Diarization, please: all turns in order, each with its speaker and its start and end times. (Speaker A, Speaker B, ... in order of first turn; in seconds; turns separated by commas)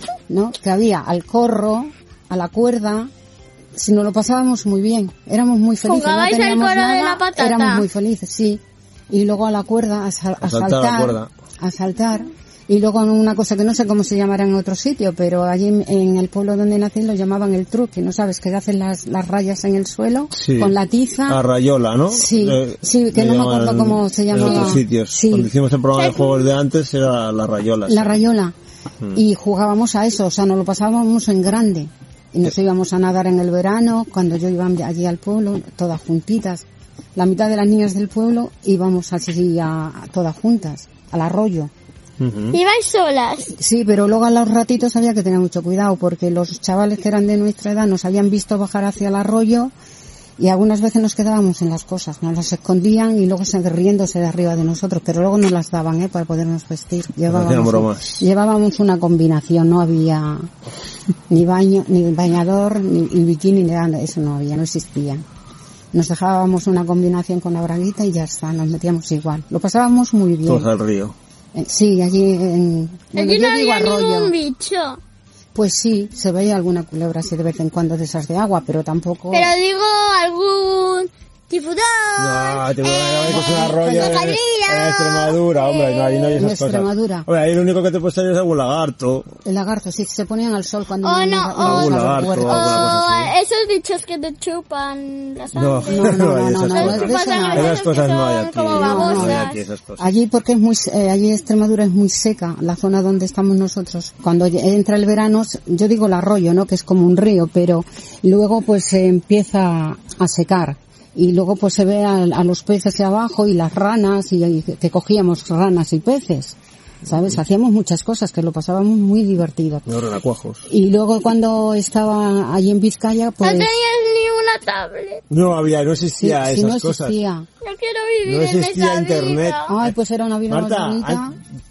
Speaker A: 0.3-3.1, Speaker A: 3.8-21.4, Speaker B: 5.8-7.9, Speaker C: 10.4-11.3, Speaker C: 20.3-20.8, Speaker C: 21.3-28.2, Speaker A: 22.1-25.5, Speaker B: 25.9-26.5, Speaker A: 27.9-28.5, Speaker A: 29.1-36.6, Speaker A: 37.2-41.7, Speaker C: 42.2-42.6, Speaker B: 42.5-43.5, Speaker A: 43.4-49.7, Speaker A: 50.4-60.5, Speaker C: 57.3-58.2, Speaker A: 61.3-65.2, Speaker A: 65.9-70.7, Speaker C: 70.5-71.2, Speaker A: 71.5-74.3, Speaker B: 73.2-75.0, Speaker A: 75.5-79.5, Speaker B: 79.3-86.4, Speaker C: 82.2-89.3, Speaker A: 83.3-84.3, Speaker A: 86.4-87.3, Speaker A: 89.5-93.0, Speaker B: 91.0-99.6, Speaker C: 91.6-93.3, Speaker C: 95.5-100.1, Speaker A: 95.9-97.8, Speaker A: 98.7-99.5, Speaker A: 100.0-119.9, Speaker C: 119.9-120.7, Speaker A: 120.7-123.7, Speaker B: 123.4-125.2, Speaker C: 125.3-127.2, Speaker A: 126.2-127.5, Speaker B: 127.6-129.7, Speaker C: 128.3-129.9, Speaker A: 129.7-131.4, Speaker C: 130.5-131.2